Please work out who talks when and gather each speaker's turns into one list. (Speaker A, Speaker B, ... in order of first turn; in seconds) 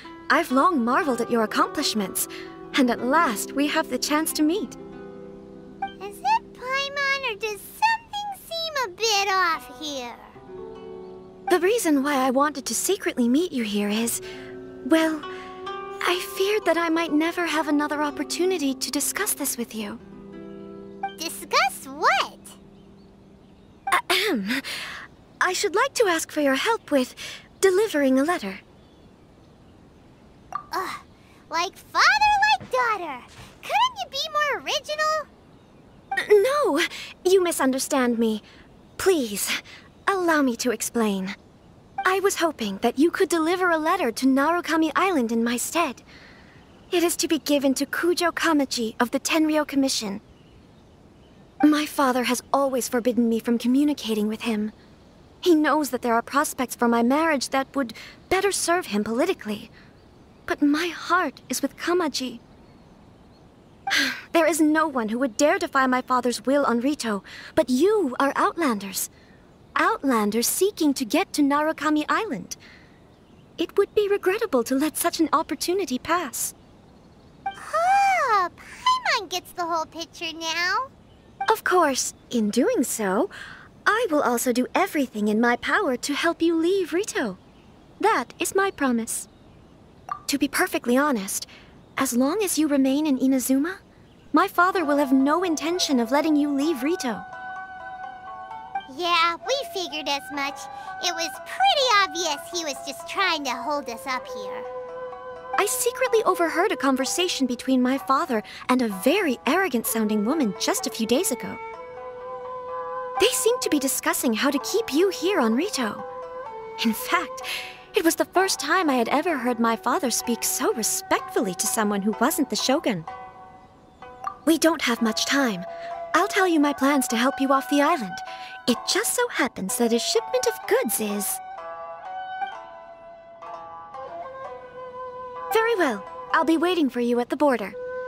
Speaker A: 0.3-4.8, 11.5-14.2, 14.9-15.3, 16.1-20.0, 23.9-24.7, 25.4-28.6, 36.2-38.4, 39.0-41.4, 42.0-46.0, 46.9-50.2, 51.6-54.7, 55.4-59.7, 60.5-62.4, 63.9-69.1, 69.8-72.6, 73.6-76.5, 81.5-83.3, 83.9-87.4, 88.0-89.3, 90.3-93.8, 94.3-97.3, 105.6-111.6, 113.2-116.0, 116.8-123.1, 124.5-131.4, 135.5-137.8
Speaker B: 6.0-10.4, 21.2-22.6, 30.7-35.3, 77.6-80.9, 98.9-104.7